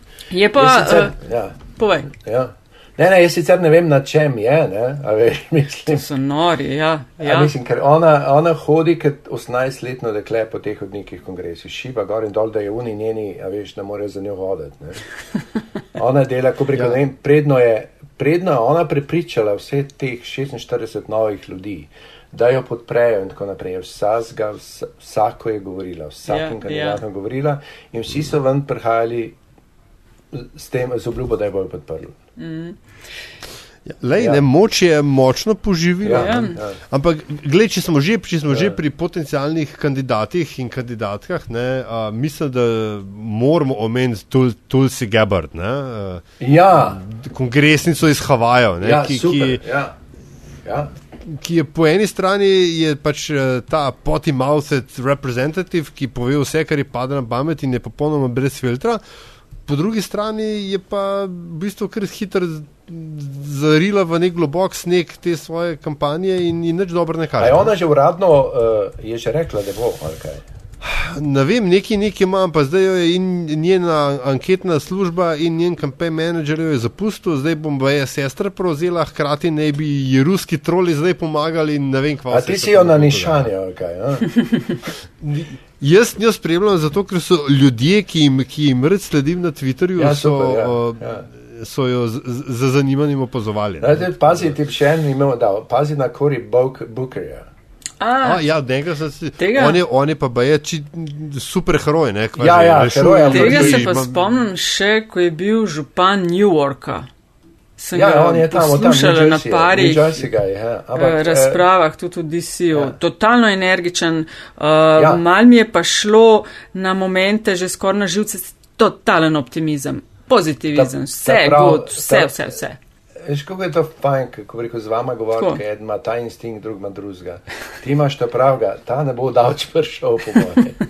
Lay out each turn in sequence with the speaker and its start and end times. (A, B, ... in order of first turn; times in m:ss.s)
0:00.3-0:01.2 A
0:00.6-0:06.0 B
0:01.8-0:02.1 A
0:05.9-0:07.5 A
0:07.2-0:15.0 B
0:16.0-0:29.4 B
0:26.3-0:27.0 A
0:30.3-0:32.2 B
0:32.4-0:32.8 A
0:33.9-0:49.6 C
0:34.2-0:34.4 B
0:36.0-0:36.8 B
0:36.1-0:36.6 A
0:38.5-0:38.8 B
0:46.4-0:47.0 B
0:48.8-0:50.0 B
0:50.6-0:50.9 B
0:51.2-0:59.0 C
0:59.7-1:07.7 C
1:07.4-1:10.4 B
1:10.8-1:23.5 C
1:22.3-1:24.6 B
1:25.2-1:34.5 C
1:30.0-1:31.3 B
1:33.8-1:37.5 B
1:38.0-1:38.4 A
1:38.2-1:44.2 C
1:39.4-1:39.8 A
1:42.4-1:43.9 B
1:43.3-1:47.1 A
1:47.8-1:50.3 A
1:48.0-1:51.6 B
1:51.0-2:02.8 A
1:55.0-1:55.2 B
2:00.8-2:02.4 B
2:03.2-2:10.8 B